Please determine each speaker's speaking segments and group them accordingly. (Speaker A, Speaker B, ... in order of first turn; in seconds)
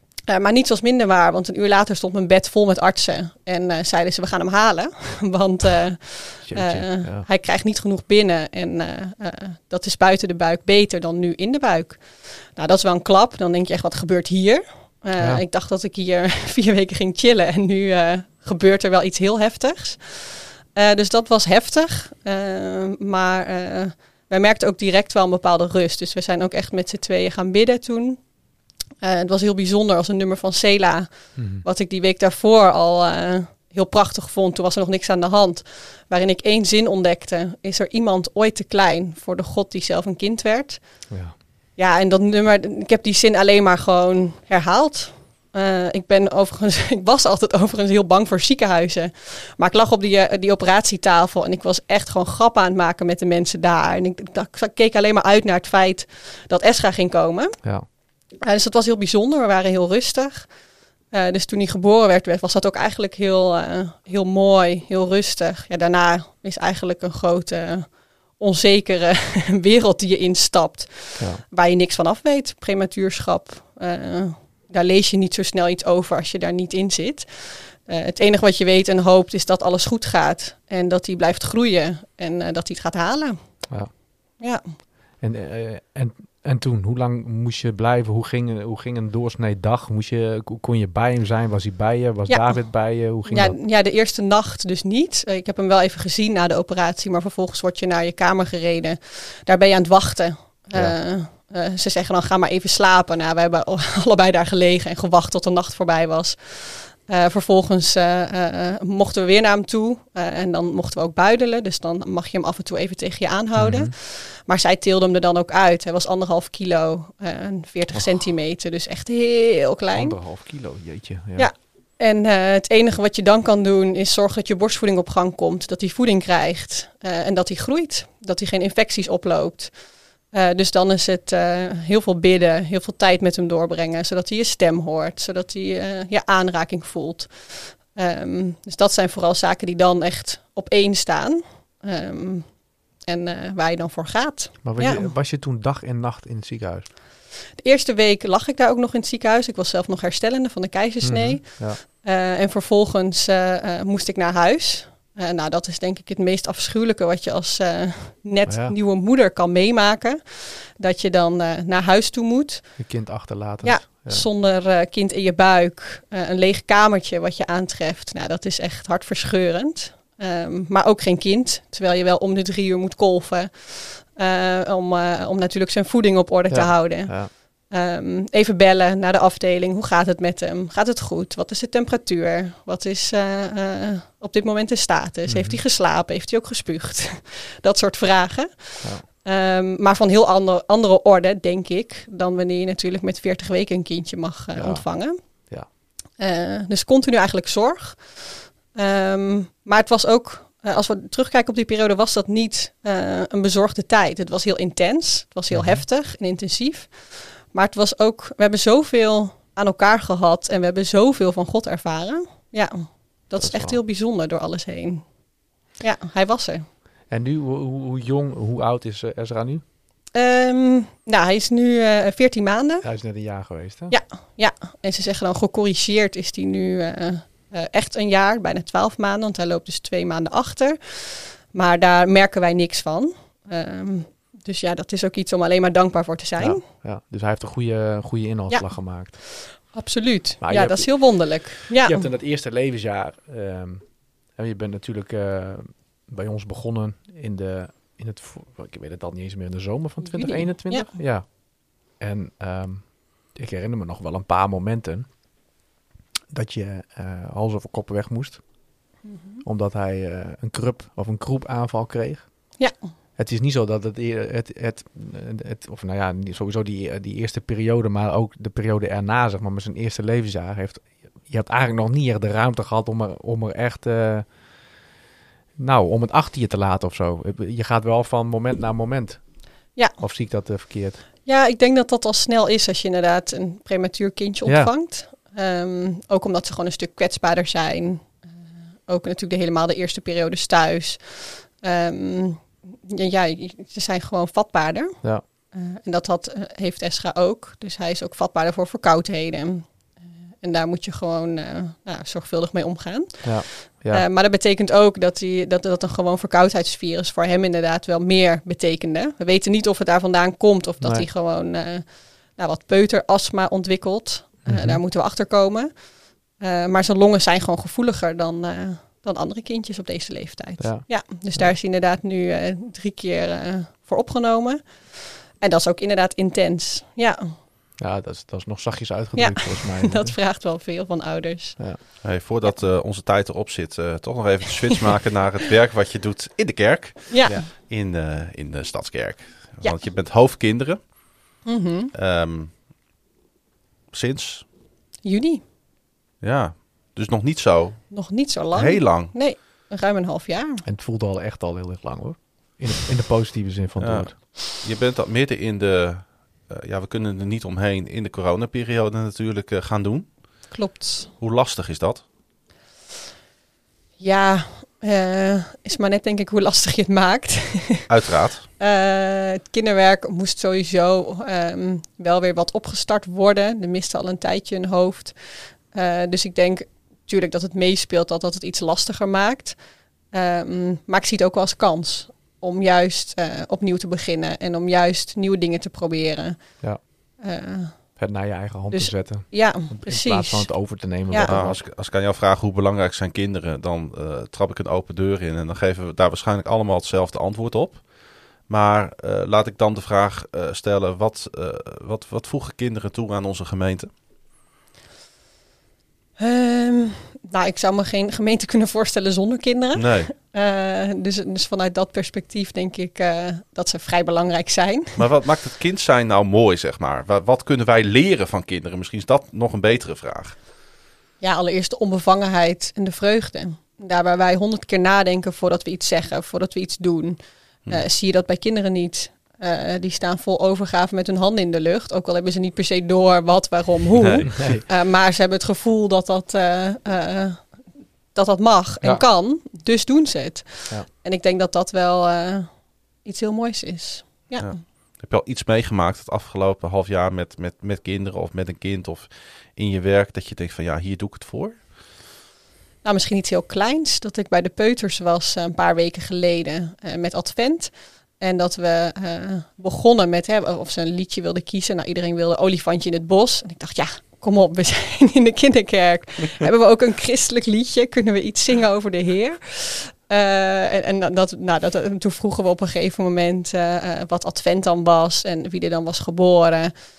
Speaker A: 0.3-28.3, 29.0-41.1, 41.8-57.6, 58.4-60.5, 61.1-83.7, 84.4-84.6, 92.3-120.2, 121.4-145.1, 147.6-162.9, 163.6-195.5, 196.2-215.2, 215.8-216.6, 220.1-222.9, 223.9-236.6, 238.5-242.1, 250.0-250.9, 259.0-259.4, 281.2-288.3, 288.9-327.3, 329.1-331.6, 337.1-337.4, 341.4-341.9, 345.0-345.4, 347.9-350.6, 360.5-361.1, 364.0-367.9, 368.6-379.6, 380.1-386.6, 387.2-388.0, 388.7-391.3, 406.2-415.0, 421.2-444.6, 452.8-476.7
Speaker B: 6.4-7.2, 31.4-31.6, 41.1-41.4, 85.2-93.6, 113.5-113.9, 117.9-118.2, 119.9-121.5, 144.6-146.9, 151.0-151.8, 158.5-158.8, 162.8-164.2, 176.5-177.3, 185.3-185.6, 194.5-195.7, 205.5-205.8, 213.4-213.8, 217.1-219.6, 222.8-223.9, 236.4-239.6, 240.4-255.1, 256.3-258.8, 259.4-262.6, 263.2-274.4, 275.6-281.0, 284.4-284.7, 303.2-304.0, 310.8-311.1, 314.4-314.8, 320.6-321.5, 327.8-330.1, 350.6-354.2, 388.0-391.6, 434.3-434.6
Speaker C: 332.0-341.3, 341.9-342.6, 343.9-344.4, 346.2-349.1, 353.8-360.4, 361.2-362.1, 367.9-368.5, 391.3-403.9, 409.7-410.1, 415.0-420.4, 444.4-451.7